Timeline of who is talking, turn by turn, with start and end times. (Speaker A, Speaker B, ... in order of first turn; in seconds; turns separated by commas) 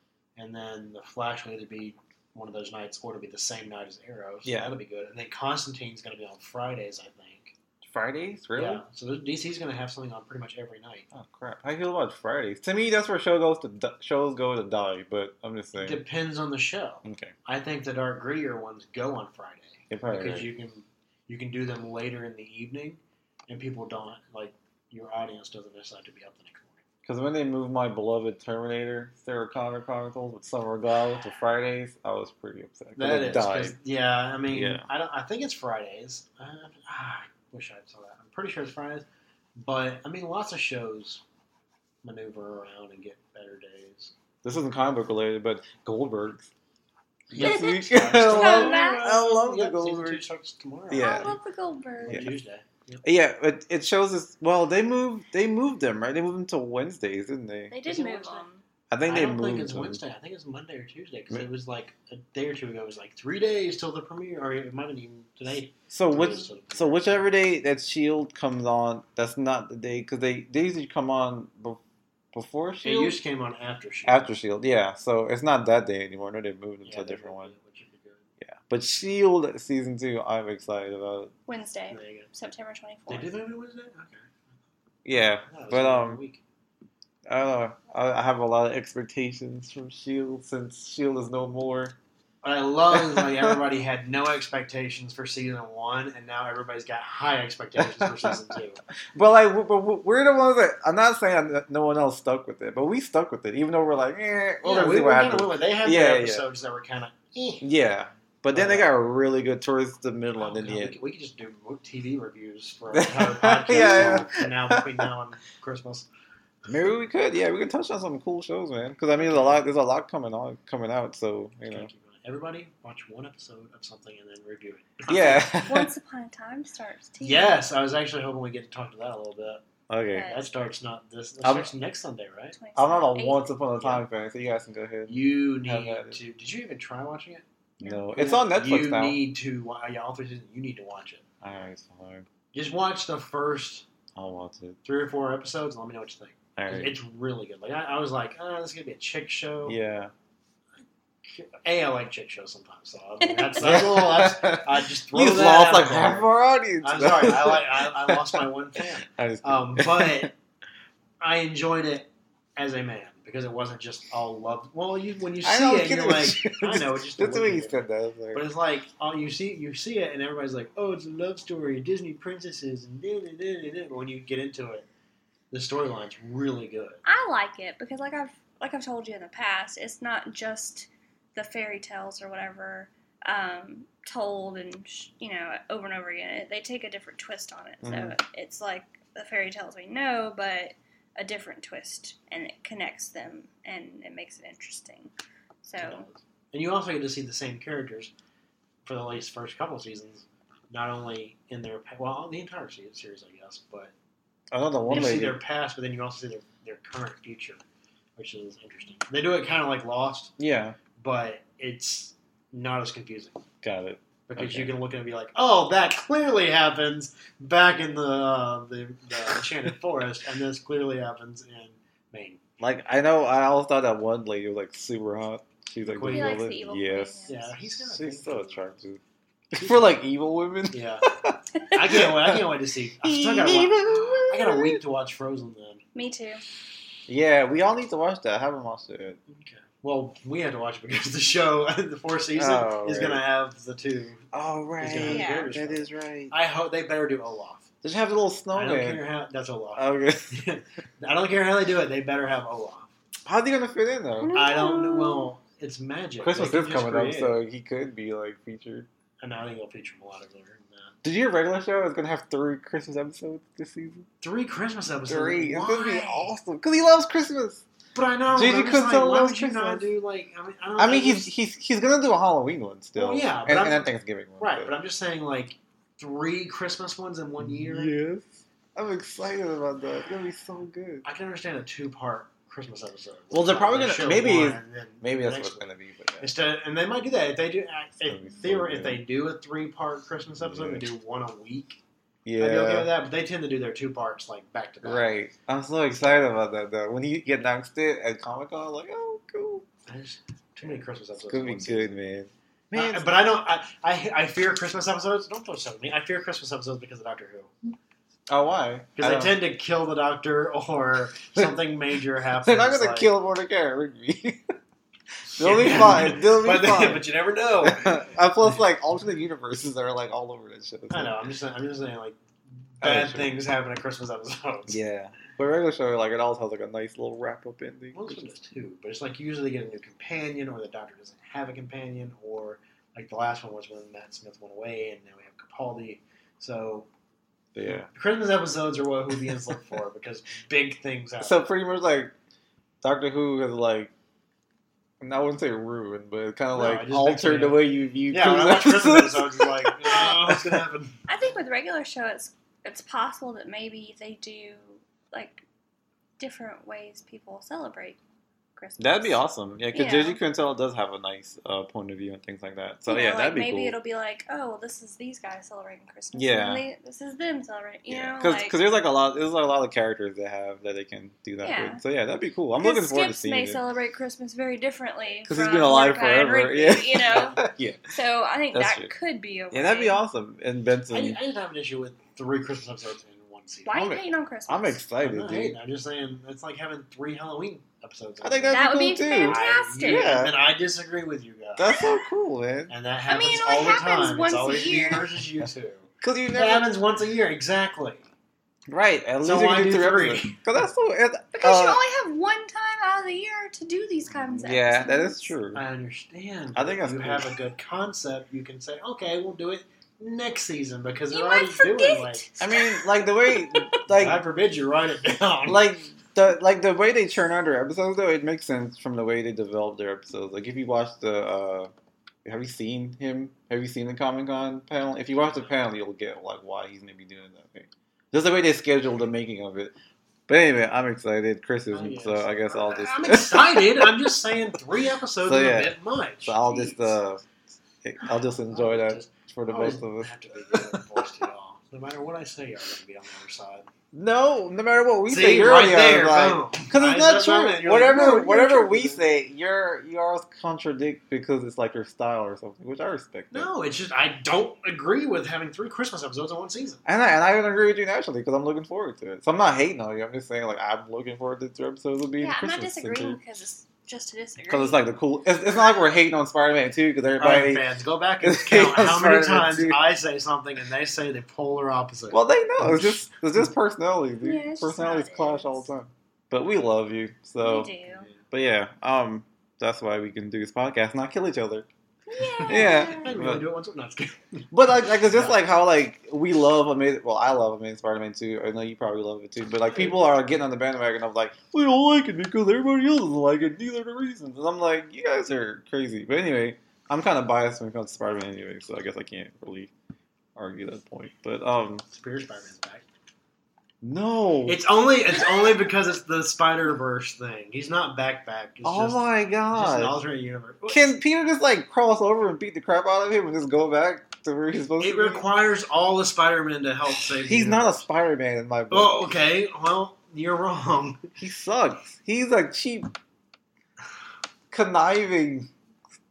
Speaker A: 0.3-7.5, Speaker B: 4.4-4.7, Speaker B: 7.8-8.8, Speaker A: 8.6-11.1, Speaker B: 11.1-16.0, Speaker A: 15.8-26.8, Speaker B: 17.0-17.3, Speaker B: 19.9-20.5, Speaker B: 27.0-33.8, Speaker A: 33.0-39.0, Speaker B: 34.5-34.9, Speaker A: 39.6-41.2, Speaker A: 42.0-44.1, Speaker B: 44.4-46.5, Speaker A: 47.3-51.4, Speaker B: 47.3-50.2, Speaker C: 47.4-49.1, Speaker B: 50.9-51.3, Speaker C: 51.0-52.3, Speaker A: 52.0-53.0, Speaker B: 53.0-57.8, Speaker C: 57.7-58.6, Speaker A: 57.9-58.5, Speaker B: 58.9-60.0, Speaker A: 59.0-67.2, Speaker B: 65.9-71.8, Speaker B: 72.3-73.2, Speaker A: 72.8-74.3, Speaker B: 74.0-77.5, Speaker A: 76.8-78.3, Speaker B: 78.4-81.3, Speaker C: 81.5-83.3, Speaker A: 81.9-82.3, Speaker A: 83.1-84.3, Speaker B: 85.0-86.2, Speaker A: 85.4-86.4, Speaker B: 87.2-91.9, Speaker A: 92.4-98.8, Speaker B: 92.9-93.6, Speaker B: 97.8-98.6, Speaker B: 99.1-106.4, Speaker A: 104.6-107.7, Speaker B: 107.6-110.9, Speaker A: 108.5-108.9, Speaker A: 110.4-116.1, Speaker B: 112.9-115.0, Speaker B: 116.7-121.9, Speaker A: 121.6-125.5, Speaker B: 125.1-125.9, Speaker C: 125.1-127.6, Speaker A: 127.2-129.6, Speaker B: 129.9-130.3, Speaker C: 130.1-130.4, Speaker A: 130.2-132.5, Speaker B: 131.4-131.7, Speaker C: 132.5-134.0, Speaker B: 132.8-136.2, Speaker A: 135.1-137.4, Speaker C: 137.8-138.1, Speaker B: 137.8-139.2, Speaker A: 138.1-141.2, Speaker B: 141.4-142.3, Speaker A: 142.5-143.8, Speaker B: 144.2-144.8, Speaker A: 144.8-149.8, Speaker B: 146.6-147.0, Speaker B: 149.7-150.1, Speaker A: 151.2-156.3, Speaker B: 153.6-160.3, Speaker A: 156.8-160.3, Speaker A: 161.2-167.8, Speaker B: 165.4-168.4, Speaker A: 168.3-174.9, Speaker A: 175.5-177.0, Speaker C: 177.0-195.1, Speaker B: 187.8-188.2, Speaker C: 195.6-196.0, Speaker A: 195.8-198.1, Speaker A: 198.8-203.9, Speaker B: 204.5-205.4, Speaker A: 204.8-207.6, Speaker A: 208.2-210.3, Speaker B: 210.4-210.8, Speaker A: 211.0-213.4, Speaker B: 213.6-214.7, Speaker A: 214.3-222.4, Speaker B: 222.6-229.0, Speaker A: 225.8-226.4, Speaker C: 226.0-227.5, Speaker A: 227.3-228.7, Speaker B: 229.5-232.4, Speaker A: 229.6-229.9, Speaker A: 230.7-231.0, Speaker A: 231.7-235.8, Speaker B: 233.0-234.8, Speaker C: 235.9-236.4, Speaker B: 237.1-239.2, Speaker A: 239.3-247.7, Speaker B: 242.3-243.2, Speaker B: 244.3-246.3, Speaker C: 245.0-245.5, Speaker B: 247.8-249.0, Speaker A: 248.5-252.9, Speaker B: 249.8-250.4, Speaker B: 253.2-254.3, Speaker C: 254.2-255.3, Speaker A: 254.3-257.4, Speaker B: 256.2-258.9, Speaker A: 259.2-260.9, Speaker B: 261.0-264.1, Speaker A: 264.2-266.3, Speaker B: 265.1-267.6, Speaker A: 267.9-271.3, Speaker B: 268.3-269.9, Speaker B: 270.8-274.7, Speaker A: 272.9-273.9, Speaker A: 274.4-277.9, Speaker B: 277.4-281.0, Speaker A: 281.0-285.6, Speaker B: 283.3-286.3, Speaker A: 286.2-291.8, Speaker B: 288.0-289.0, Speaker B: 290.4-290.9, Speaker B: 292.2-292.9, Speaker A: 292.4-295.1, Speaker B: 294.8-299.6, Speaker A: 299.9-301.9, Speaker B: 301.2-303.1, Speaker A: 302.7-307.5, Speaker B: 308.3-309.4, Speaker A: 308.9-313.1, Speaker B: 312.4-314.6, Speaker A: 315.3-318.1, Speaker B: 315.3-317.1, Speaker B: 317.6-321.1, Speaker A: 320.9-322.2, Speaker A: 322.8-324.8, Speaker B: 322.8-323.4, Speaker B: 324.7-328.3, Speaker A: 327.9-336.9, Speaker B: 337.5-337.9, Speaker A: 337.9-341.4, Speaker B: 341.2-342.1, Speaker B: 342.8-343.9, Speaker B: 345.0-350.6, Speaker A: 346.5-351.0, Speaker C: 351.1-355.4, Speaker C: 356.2-358.0, Speaker C: 358.6-359.2, Speaker B: 358.8-363.8, Speaker C: 359.7-360.2, Speaker C: 362.9-368.6, Speaker B: 366.1-366.6, Speaker B: 367.9-373.6, Speaker C: 371.4-371.8, Speaker C: 372.5-380.0, Speaker B: 375.3-377.9, Speaker B: 378.5-378.9, Speaker B: 379.5-381.2, Speaker A: 380.9-383.9, Speaker C: 383.6-384.8, Speaker B: 383.7-385.6, Speaker A: 385.0-391.9, Speaker B: 388.2-390.3, Speaker C: 388.5-390.1, Speaker B: 391.6-392.7, Speaker C: 391.6-391.9, Speaker A: 392.7-398.1, Speaker C: 393.1-395.1, Speaker B: 396.0-396.7, Speaker B: 398.7-401.8, Speaker A: 399.2-400.4, Speaker C: 401.3-405.3, Speaker B: 404.4-405.6, Speaker A: 405.5-412.3, Speaker B: 406.5-407.3, Speaker C: 411.1-413.8, Speaker B: 412.4-414.2, Speaker A: 413.9-415.7, Speaker B: 415.4-421.7, Speaker B: 422.2-429.7, Speaker A: 425.2-425.5, Speaker B: 430.3-434.0, Speaker A: 431.7-436.9, Speaker B: 435.2-437.3, Speaker B: 437.8-441.0, Speaker A: 438.4-443.7, Speaker B: 443.9-453.5, Speaker A: 445.1-449.0, Speaker A: 453.3-456.8, Speaker B: 456.8-463.2, Speaker C: 462.2-464.8, Speaker B: 464.5-467.7, Speaker A: 467.2-473.0, Speaker B: 468.2-469.8, Speaker B: 472.1-481.7, Speaker C: 474.2-475.6, Speaker C: 477.4-478.1, Speaker A: 477.9-478.2, Speaker C: 482.1-483.1, Speaker A: 482.4-485.3, Speaker B: 482.5-483.4, Speaker B: 484.5-499.7, Speaker B: 500.4-501.8, Speaker A: 501.9-502.8, Speaker B: 503.8-504.6, Speaker A: 504.5-511.0, Speaker B: 508.6-509.9, Speaker B: 510.7-515.3, Speaker A: 514.8-517.9, Speaker B: 517.0-519.0, Speaker A: 518.7-521.0, Speaker B: 521.2-522.9, Speaker B: 524.5-525.5